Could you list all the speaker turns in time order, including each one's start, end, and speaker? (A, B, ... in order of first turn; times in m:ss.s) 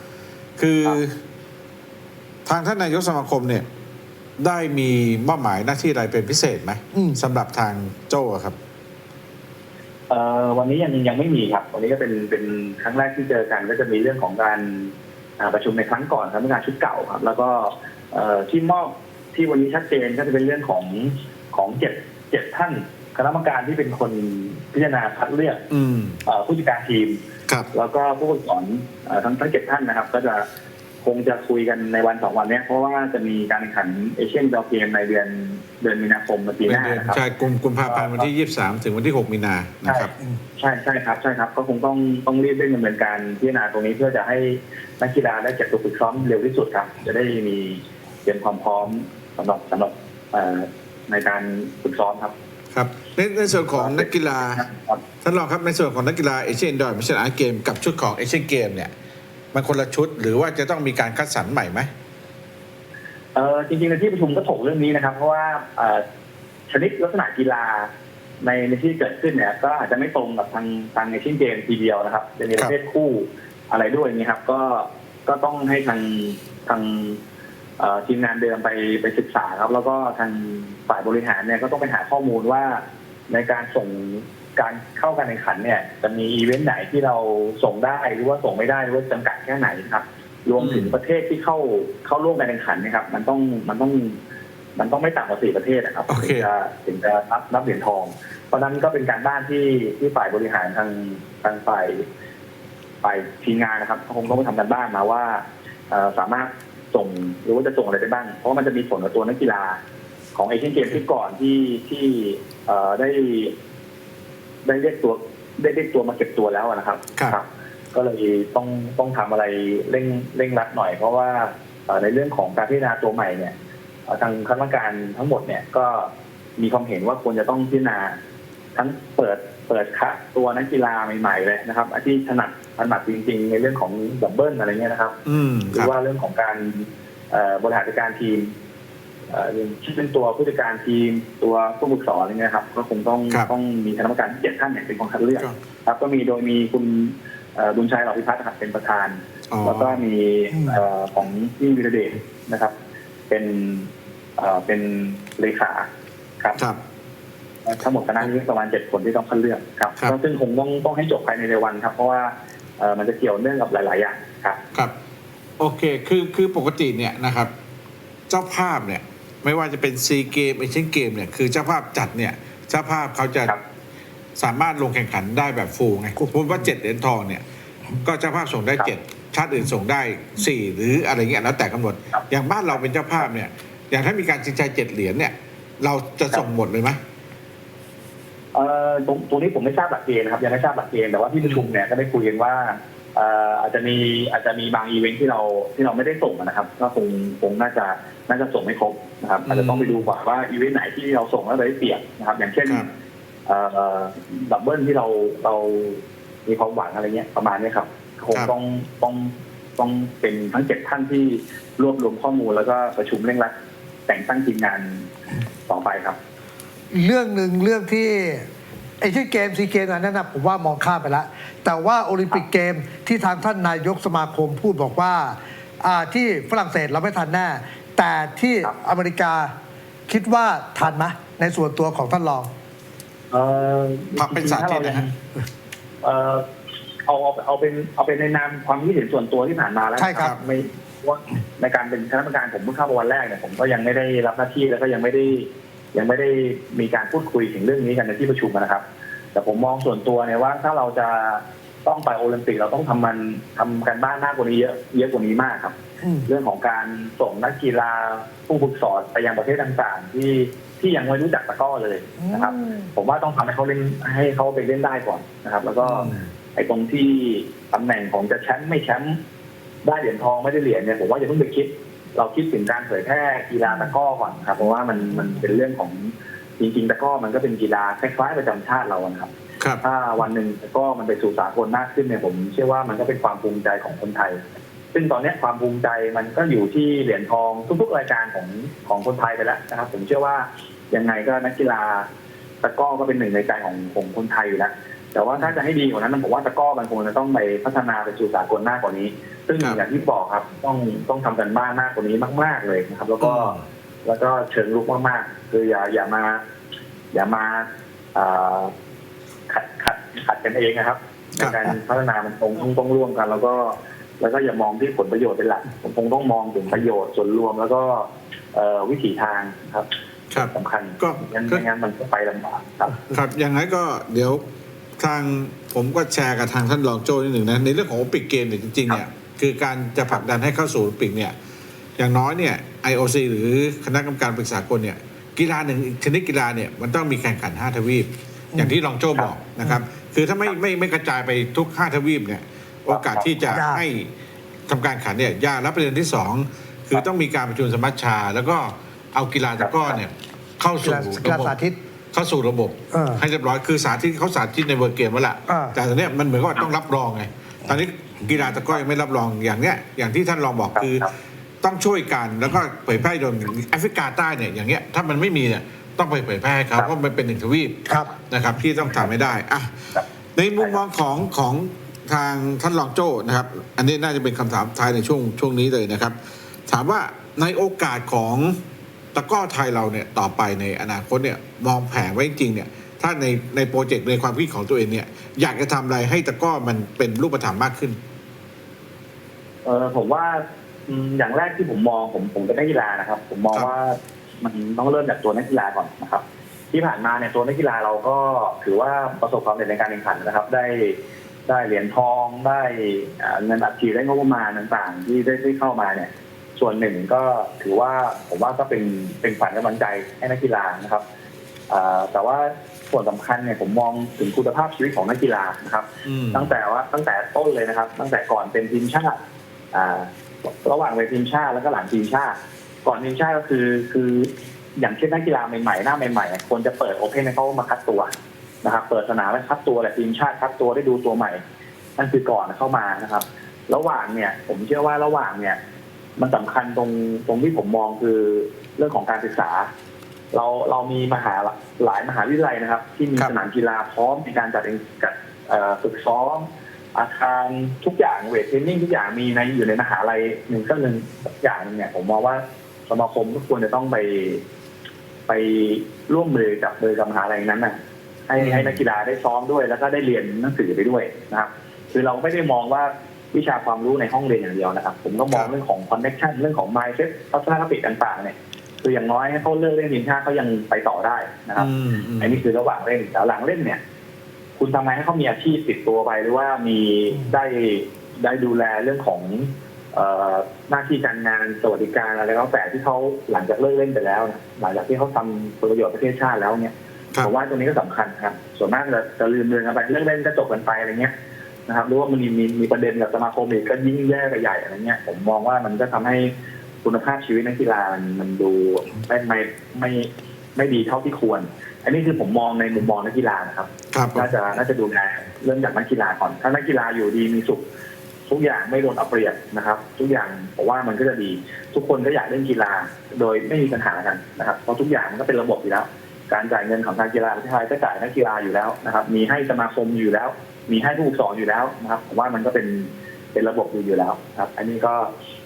0:00.6-0:01.2 A
0:02.5-0:03.7 A
0:04.4-0:08.6 A
0:06.9-0:07.2 B
0:10.1-0:25.6 C
0:25.7-0:26.2 A
0:26.3-0:27.2 C
0:27.7-0:30.5 C
0:31.0-0:37.2 C
0:36.7-0:40.1 A
0:37.8-0:38.3 C
0:39.8-0:52.3 C
0:52.7-0:54.6 A
0:53.7-0:55.0 C
0:55.2-0:58.9 A
0:59.5-1:01.9 A
1:03.4-1:06.0 C
1:06.7-1:07.9 C
1:08.4-1:17.2 C
1:17.8-1:34.2 C
1:30.6-1:31.0 A
1:34.8-1:42.0 C
1:36.1-1:36.5 A
1:43.0-1:49.8 C
1:50.4-1:53.5 C
1:54.6-2:03.5 C
2:04.1-2:08.2 C
2:08.8-2:15.2 C
2:15.3-2:15.9 A
2:15.7-2:18.5 C
2:19.3-2:32.7 C
2:29.5-2:30.0 A
2:33.3-2:35.9 C
2:37.6-2:44.6 C
2:45.6-2:47.5 A
2:48.3-2:53.5 A
2:54.4-2:57.4 A
2:58.0-3:07.0 A
3:08.5-3:22.9 C
3:11.4-3:11.7 A
3:19.5-3:20.0 A
3:23.5-3:33.5 C
3:34.1-3:35.1 C
3:35.7-3:36.2 C
3:36.9-3:38.5 B
3:39.0-3:49.5 B
3:50.1-3:52.5 B
3:53.3-3:55.1 C
3:54.2-3:55.1 A
3:56.0-3:56.4 C
3:57.0-4:08.8 C
4:00.0-4:00.4 B
4:09.3-4:15.8 C
4:16.0-4:16.3 B
4:16.3-4:29.2 C
4:22.2-4:22.9 B
4:25.8-4:26.3 A
4:29.8-4:39.3 C
4:39.8-4:44.4 C
4:44.9-4:52.1 C
4:52.6-5:06.4 C
5:03.2-5:03.6 A
5:07.1-5:08.7 C
5:09.5-5:23.1 C
5:20.3-5:21.6 A
5:23.1-5:24.4 A
5:25.0-5:31.4 A
5:32.0-5:44.1 A
5:42.9-5:43.4 C
5:43.5-5:43.8 B
5:44.7-5:51.6 A
5:49.6-5:50.0 C
5:50.8-5:51.8 B
5:52.1-6:01.1 A
5:52.9-5:53.2 B
5:55.5-5:55.8 B
6:00.8-6:01.1 C
6:01.6-6:09.7 A
6:07.8-6:08.1 B
6:10.4-6:16.2 A
6:10.6-6:10.8 C
6:16.7-6:18.6 A
6:19.1-6:28.0 A
6:29.6-6:51.0 C
6:51.7-6:59.2 C
6:56.0-6:56.5 A
6:59.7-7:08.1 C
7:08.6-7:11.4 C
7:12.0-7:15.6 C
7:16.2-7:19.7 C
7:20.3-7:34.4 C
7:35.3-7:37.8 C
7:38.3-7:53.8 C
7:38.4-7:38.8 A
7:51.6-7:52.4 A
7:54.6-8:11.1 C
8:11.7-8:27.6 C
8:23.9-8:24.3 A
8:28.3-8:45.1 C